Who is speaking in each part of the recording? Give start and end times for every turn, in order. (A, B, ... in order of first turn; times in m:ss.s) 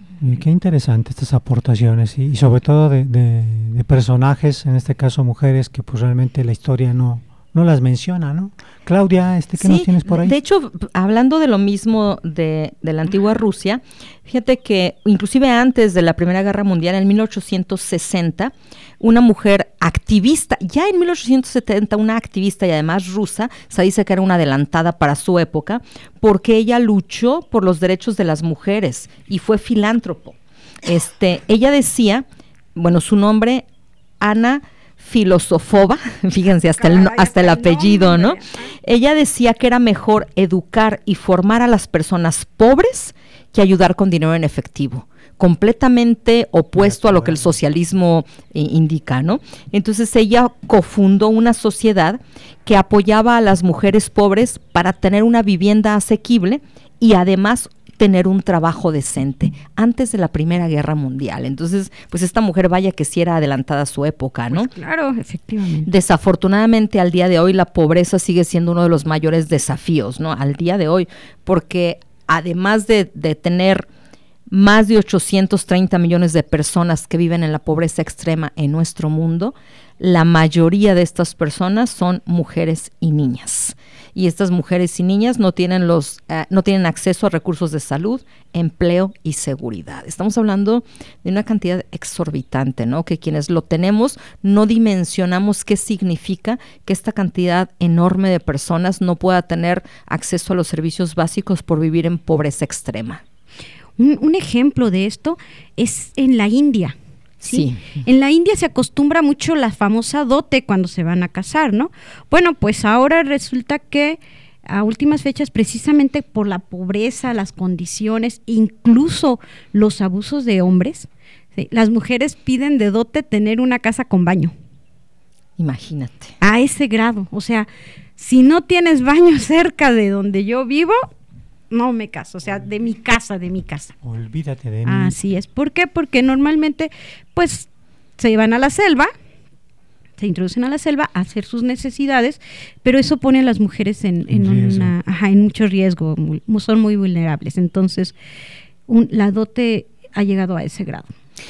0:00.2-0:10.3 A
0:09.6-0:33.6 B
0:34.2-1:04.7 B
0:36.8-0:38.7 C
0:46.8-0:47.5 A
1:04.5-1:05.9 C
1:05.8-1:13.9 B
1:14.5-1:43.2 B
1:44.0-2:04.5 C
1:47.5-1:47.9 B
2:05.6-2:06.3 B
2:06.4-2:11.1 C
2:11.7-2:13.9 C
2:14.0-2:15.2 A
2:14.8-2:19.1 C
2:20.2-2:28.1 C
2:24.3-2:24.9 A
2:28.9-2:31.1 C